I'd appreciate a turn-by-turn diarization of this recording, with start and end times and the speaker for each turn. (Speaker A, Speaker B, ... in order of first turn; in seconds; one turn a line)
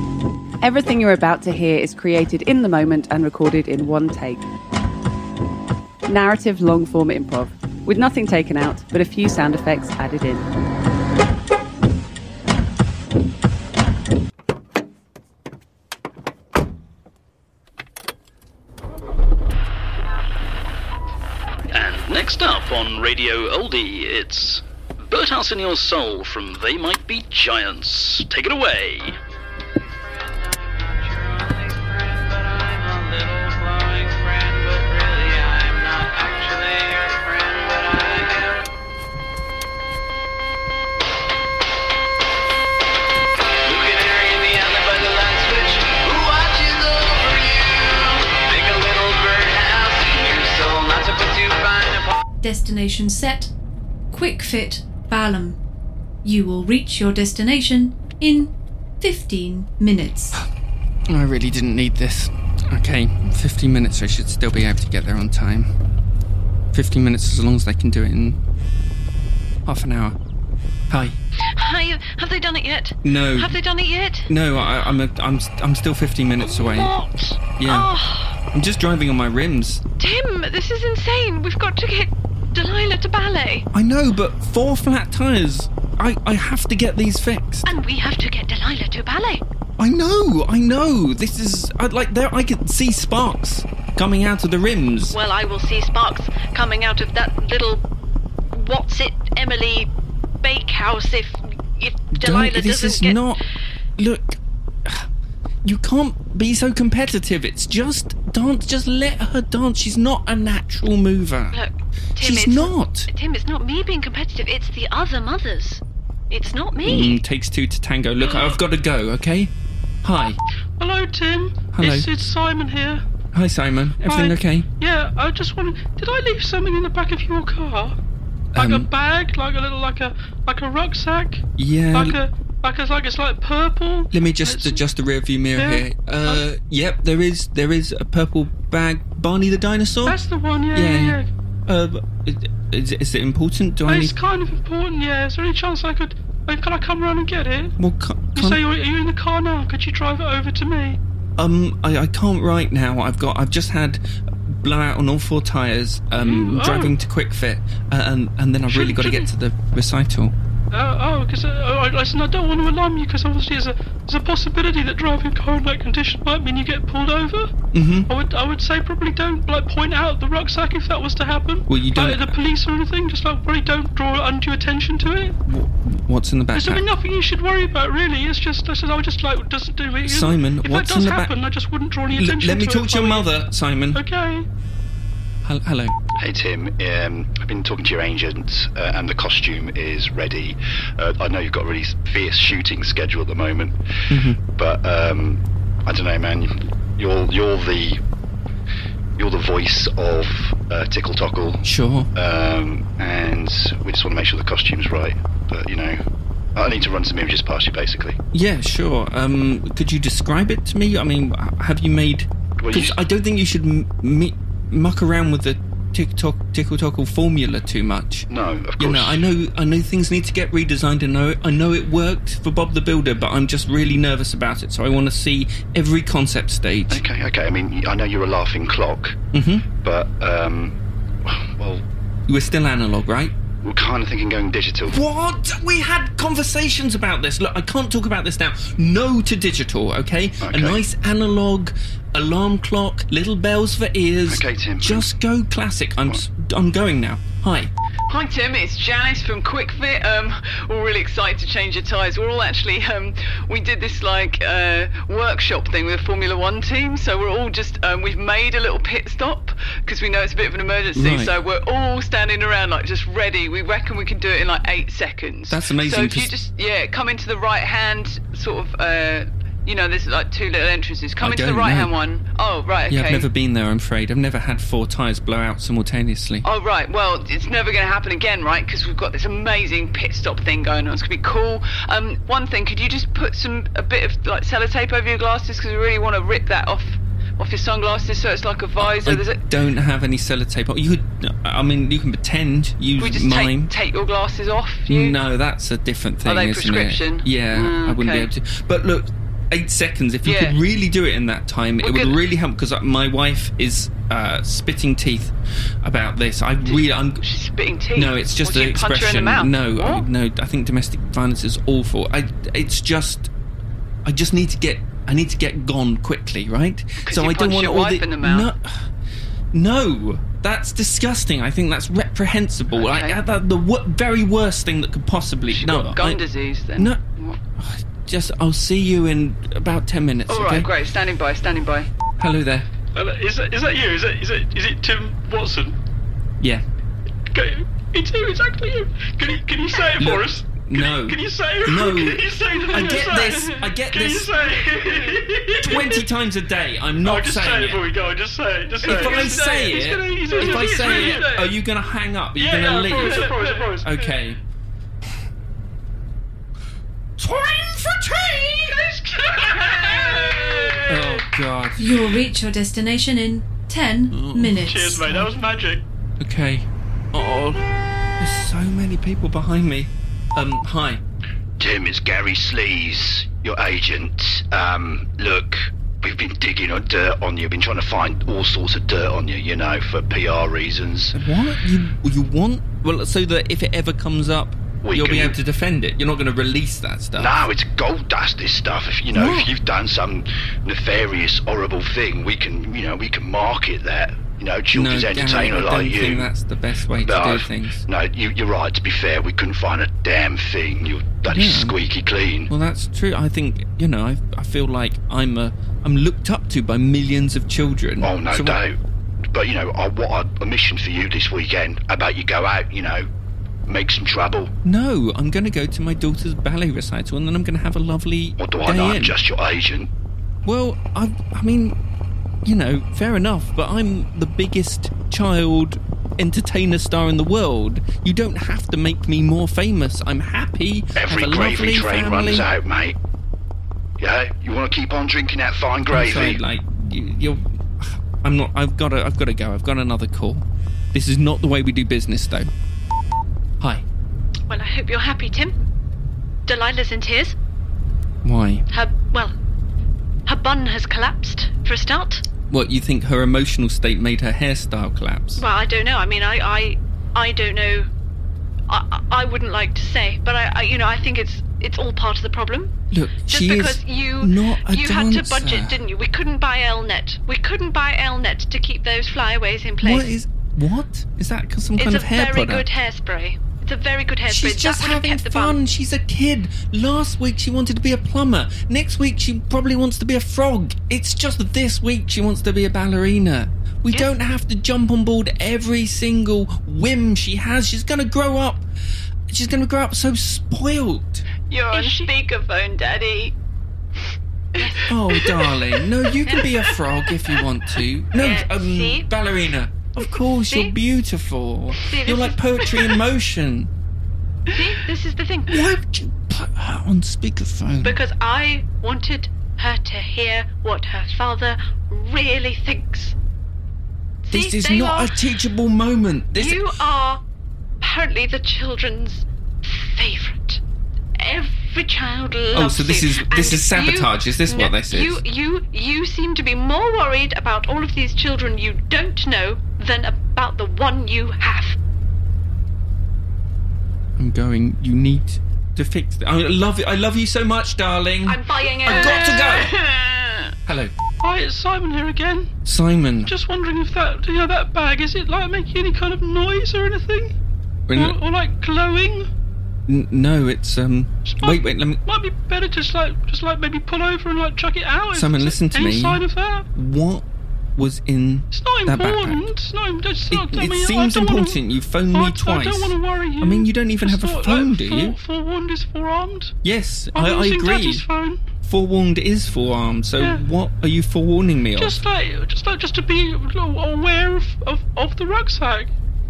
Speaker A: 0.6-4.5
Speaker A: 6.1-10.5
Speaker B: 21.7-29.2
Speaker C: 29.8-38.7
Speaker C: 43.6-52.2
Speaker D: 52.4-53.5
Speaker D: 54.1-55.6
Speaker D: 56.2-60.3
Speaker E: 61.1-65.7
Speaker E: 66.7-68.4
Speaker E: 69.7-70.2
Speaker E: 70.9-71.2
Speaker F: 71.5-74.3
Speaker E: 73.0-73.6
Speaker E: 74.3-76.9
Speaker F: 76.5-78.4
Speaker E: 77.6-77.9
Speaker E: 78.5-79.8
Speaker F: 80.0-83.7
Speaker E: 83.7-87.7
Speaker F: 87.7-89.4
Speaker E: 89.8-95.2
Speaker F: 95.1-97.8
Speaker F: 98.5-99.9
Speaker F: 100.4-103.2
Speaker E: 102.1-103.4
Speaker E: 104.0-105.1
Speaker E: 105.6-111.6
Speaker F: 111.5-117.2
Speaker E: 112.2-113.1
Speaker E: 116.8-119.5
Speaker G: 118.3-118.6
Speaker E: 120.0-120.4
Speaker G: 120.8-123.0
Speaker E: 121.7-122.1
Speaker E: 123.3-124.7
Speaker G: 124.0-128.0
Speaker E: 128.6-128.9
Speaker G: 128.6-131.4
Speaker E: 131.6-132.2
Speaker G: 131.9-134.8
Speaker E: 134.1-140.2
Speaker G: 135.6-136.4
Speaker G: 140.1-141.3
Speaker E: 140.7-144.2
Speaker G: 143.9-147.8
Speaker E: 147.8-148.6
Speaker G: 148.4-151.0
Speaker E: 151.4-160.3
Speaker G: 156.2-157.0
Speaker G: 158.7-159.3
Speaker G: 160.7-167.5
Speaker E: 167.7-168.1
Speaker G: 168.1-175.3
Speaker E: 171.7-172.3
Speaker E: 175.5-176.9
Speaker G: 176.5-183.3
Speaker E: 180.1-181.3
Speaker E: 182.1-184.0
Speaker G: 183.9-184.5
Speaker E: 185.4-186.0
Speaker H: 186.2-193.8
Speaker E: 194.1-194.4
Speaker H: 194.6-198.0
Speaker H: 199.2-206.0
Speaker E: 201.6-202.1
Speaker H: 206.6-208.2
Speaker E: 208.3-227.1
Speaker H: 212.6-212.9
Speaker H: 218.3-219.2
Speaker H: 226.9-229.2
Speaker E: 229.3-229.7
Speaker H: 229.8-231.8
Speaker E: 232.3-233.3
Speaker H: 233.6-235.0
Speaker E: 234.9-247.7
Speaker H: 240.4-240.8
Speaker H: 244.3-245.1
Speaker C: 248.1-273.3
Speaker E: 260.9-261.3
Speaker E: 265.5-266.3
Speaker E: 271.2-271.9
Speaker E: 272.9-276.5
Speaker C: 276.4-289.4
Speaker E: 288.8-293.7
Speaker C: 293.0-295.1
Speaker E: 294.9-307.2
Speaker C: 296.2-298.3
Speaker C: 300.2-300.6
Speaker C: 301.8-302.2
Speaker C: 306.6-310.1
Speaker E: 307.9-313.3
Speaker E: 314.1-318.9
Speaker C: 317.0-318.5
Speaker E: 319.5-326.2
Speaker C: 322.8-323.2
Speaker C: 325.5-327.4
Speaker E: 327.6-330.7
Speaker C: 330.3-331.9
Speaker E: 332.2-332.7
Speaker G: 332.9-335.8
Speaker G: 337.3-346.0
Speaker E: 340.0-344.3
Speaker E: 345.6-347.9
Speaker G: 347.0-351.4
Speaker E: 348.8-354.4
Speaker C: 348.8-351.4
Speaker G: 352.4-354.2
Speaker C: 353.0-353.6
Speaker E: 357.2-358.9
Speaker G: 359.0-360.8
Speaker E: 360.9-362.1
Speaker D: 361.8-365.1
Speaker E: 364.1-364.7
Speaker G: 364.6-365.8
Speaker E: 366.2-367.7
Speaker E: 368.2-371.0
Speaker H: 371.6-381.1
Speaker E: 381.1-387.4
Speaker H: 384.8-385.4
Speaker H: 387.2-396.3
Speaker E: 389.1-389.5
Speaker E: 394.7-397.9
Speaker H: 397.0-402.5
Speaker E: 401.3-401.8
Speaker E: 402.5-408.6
Speaker H: 408.0-408.8
Speaker H: 409.3-413.1
Speaker H: 413.7-414.5
Speaker E: 414.6-419.2
Speaker H: 418.4-419.9
Speaker E: 420.4-421.8
Speaker E: 422.4-432.5
Speaker H: 431.0-433.0
Speaker H: 434.0-436.4
Speaker E: 435.9-442.5
Speaker F: 444.5-445.6
Speaker F: 446.5-447.4
Speaker E: 448.2-448.7
Speaker F: 448.7-449.3
Speaker F: 450.3-452.2
Speaker E: 452.5-455.4
Speaker F: 455.4-457.9
Speaker F: 458.7-462.7
Speaker E: 462.9-465.8
Speaker F: 463.3-470.1
Speaker E: 469.8-472.7
Speaker F: 471.8-475.6
Speaker E: 474.3-488.6
Speaker E: 489.3-491.2
Speaker C: 491.5-492.2
Speaker F: 491.7-493.3
Speaker C: 494.6-495.3
Speaker F: 494.6-494.9
Speaker E: 494.9-503.7
Speaker F: 498.1-499.1
Speaker F: 500.0-500.8
Speaker F: 501.8-502.9
Speaker F: 504.5-505.7
Speaker E: 505.5-508.0
Speaker F: 507.8-513.1
Speaker F: 514.2-515.2
Speaker E: 514.3-516.7
Speaker F: 516.4-517.2
Speaker F: 517.8-520.6
Speaker F: 521.2-531.8
Speaker E: 522.5-525.2
Speaker E: 534.2-539.8
Speaker F: 538.2-539.8
Speaker E: 540.7-541.0
Speaker G: 541.2-542.5
Speaker E: 542.6-543.3
Speaker G: 543.3-547.3
Speaker E: 547.9-548.2
Speaker G: 548.0-549.3
Speaker E: 549.9-552.0
Speaker G: 551.2-556.7
Speaker E: 555.1-556.2
Speaker E: 556.7-557.2
Speaker E: 557.8-559.5
Speaker G: 558.5-561.6
Speaker E: 560.3-565.2
Speaker G: 562.1-566.5
Speaker E: 566.6-568.1
Speaker G: 567.1-568.4
Speaker E: 568.6-572.0
Speaker G: 571.8-575.9